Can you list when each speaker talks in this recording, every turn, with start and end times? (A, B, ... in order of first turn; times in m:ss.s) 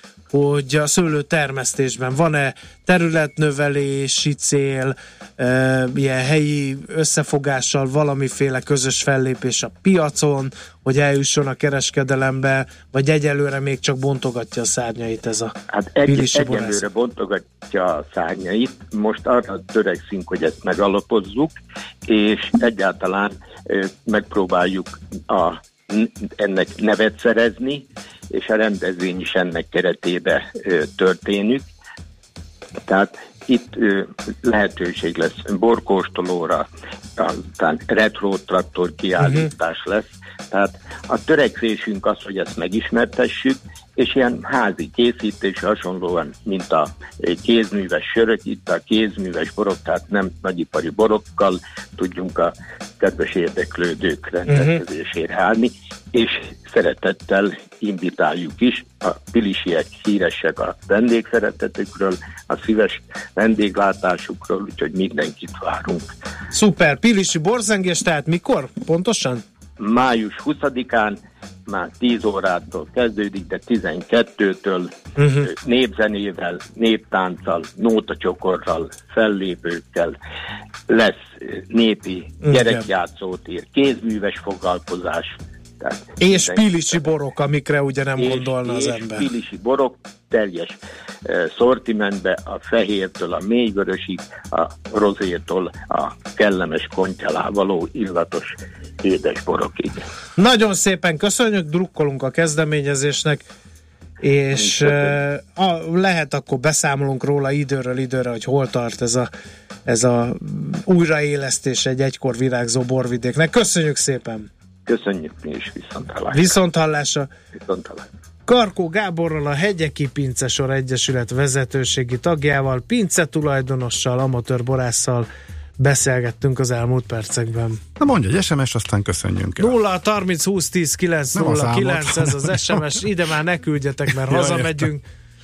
0:00.3-0:15.5 A
0:15.7-0:21.6 B
0:16.0-0:16.8 A
0:22.1-0:31.7 B
0:32.9-0:36.7 B
0:37.2-1:06.1 B
0:39.2-0:39.5 A
0:54.5-0:54.8 A
1:06.5-1:09.4 A
1:09.8-1:20.2 B
1:15.2-1:15.5 A
1:20.9-1:26.6 B
1:22.4-1:22.8 A
1:26.2-1:29.3 A
1:28.2-1:40.1 B
1:40.4-1:43.4 A
1:44.2-1:49.3 A
1:44.6-1:45.1 B
1:49.8-1:54.5 A
1:54.9-1:56.6 B
1:56.3-1:57.3 A
1:57.6-1:58.1 B
1:58.5-2:05.3 A
2:05.8-2:07.8 A
2:08.0-2:09.8 C
2:09.6-2:15.0 A
2:11.3-2:13.0 C
2:14.2-2:14.8 C